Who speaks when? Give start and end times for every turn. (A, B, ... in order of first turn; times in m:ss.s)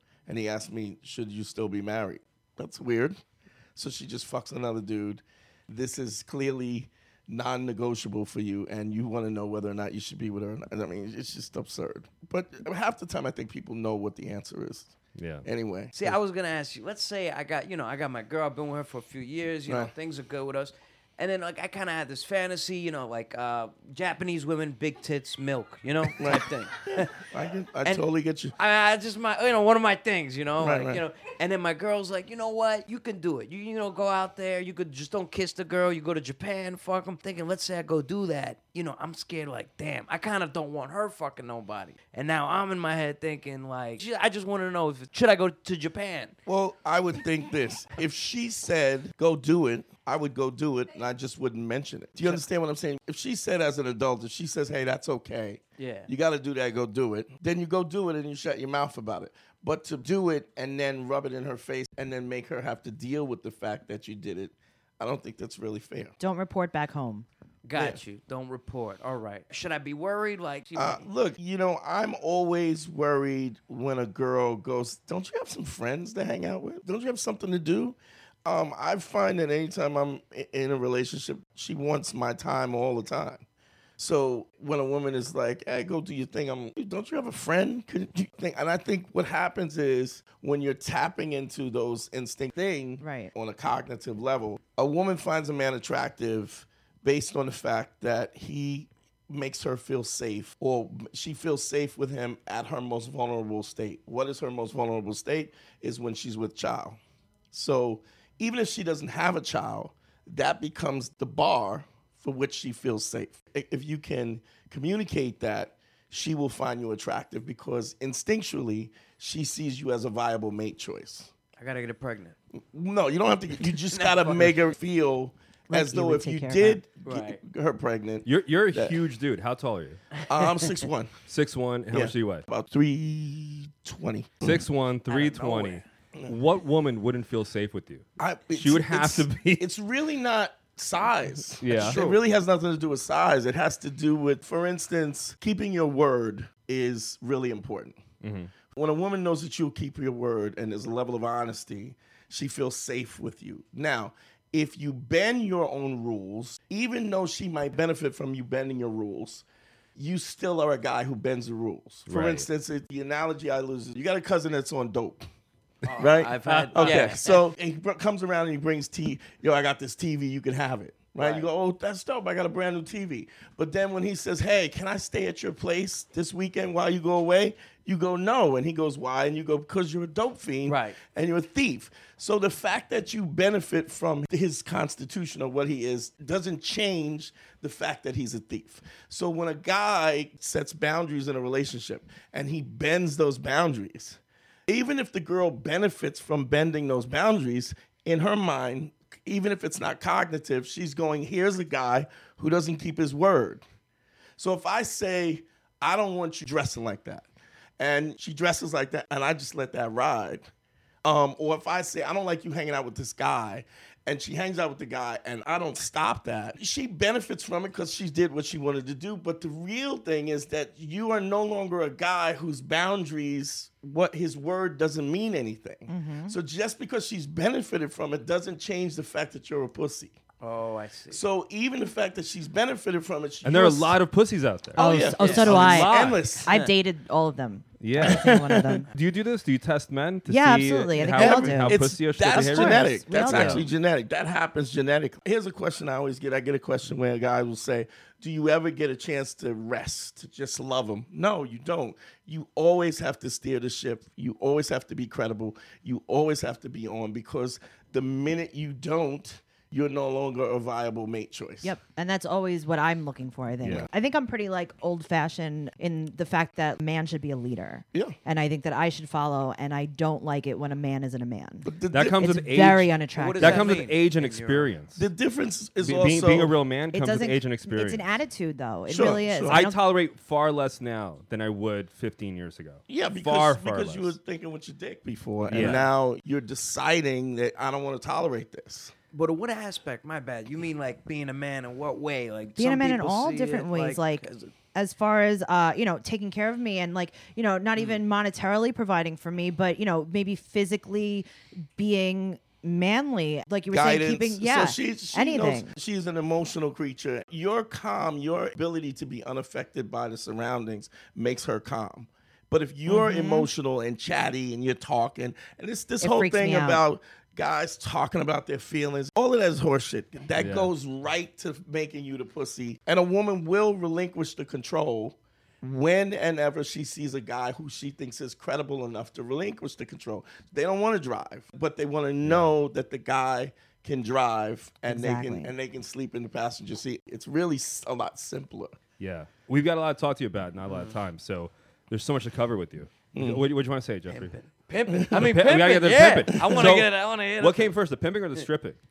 0:00.3-0:03.2 A
0:03.8-0:16.1 A
0:15.2-0:15.4 B
0:16.0-0:27.2 C
0:26.1-0:28.5 A
0:28.6-0:46.3 C
0:30.6-0:31.0 A
0:46.5-1:06.1 A
0:55.8-0:56.1 C
1:06.2-1:07.3 D
1:07.6-1:11.0 C
1:07.7-1:08.0 A
1:10.7-1:23.4 A
1:24.0-1:47.0 A
1:33.0-1:33.3 D
1:47.5-2:01.3 A
2:01.6-2:02.4 C
2:02.5-2:09.0 A
2:03.6-2:04.6 C
2:05.7-2:06.8 D
2:07.0-2:07.4 C
2:08.2-2:10.0 B
2:10.2-2:10.7 C
2:10.3-2:11.2 A
2:11.3-2:12.4 B
2:11.9-2:14.7 A
2:14.4-2:19.6 B
2:15.1-2:15.8 C
2:18.2-2:28.0 A
2:21.6-2:22.0 B
2:21.7-2:22.2 C
2:28.2-2:28.5 B
2:28.7-2:39.4 A
2:40.0-2:45.2 A
2:42.1-2:42.4 B
2:45.8-2:47.4 C
2:46.0-3:23.6 A
2:46.4-2:47.1 B
2:51.2-2:51.5 C
3:00.6-3:01.0 C
3:24.4-3:27.3 A
3:27.8-3:30.4 A
3:31.0-3:50.2 A
3:45.9-3:46.4 D
3:50.4-3:51.2 C
3:51.1-3:54.0 A
3:53.4-3:56.4 B
3:54.8-3:56.5 A
3:54.8-3:58.9 D
3:55.2-3:55.5 C
3:57.8-3:58.3 B
3:58.0-3:58.8 A
3:58.9-4:03.6 B
4:00.3-4:03.7 D
4:01.0-4:21.8 A
4:21.6-4:33.8 D
4:31.6-4:32.3 A
4:31.9-4:35.0 B
4:33.2-4:34.7 C
4:35.0-4:36.5 A
4:35.8-4:38.1 B
4:36.9-4:39.8 D
4:38.9-4:39.6 A
4:39.5-4:44.1 B
4:42.9-4:48.9 A
4:45.4-4:45.8 B
4:45.5-4:45.9 C
4:49.1-4:54.5 C
4:52.6-5:05.7 D
5:03.7-5:38.8 A
5:12.9-5:13.5 D
5:16.0-5:16.8 D
5:20.4-5:20.7 B
5:32.2-5:32.5 B
5:34.9-5:35.5 D
5:39.0-5:44.4 B
5:40.7-5:41.0 C
5:43.1-5:43.4 A
5:44.1-5:47.8 C
5:45.1-5:48.8 B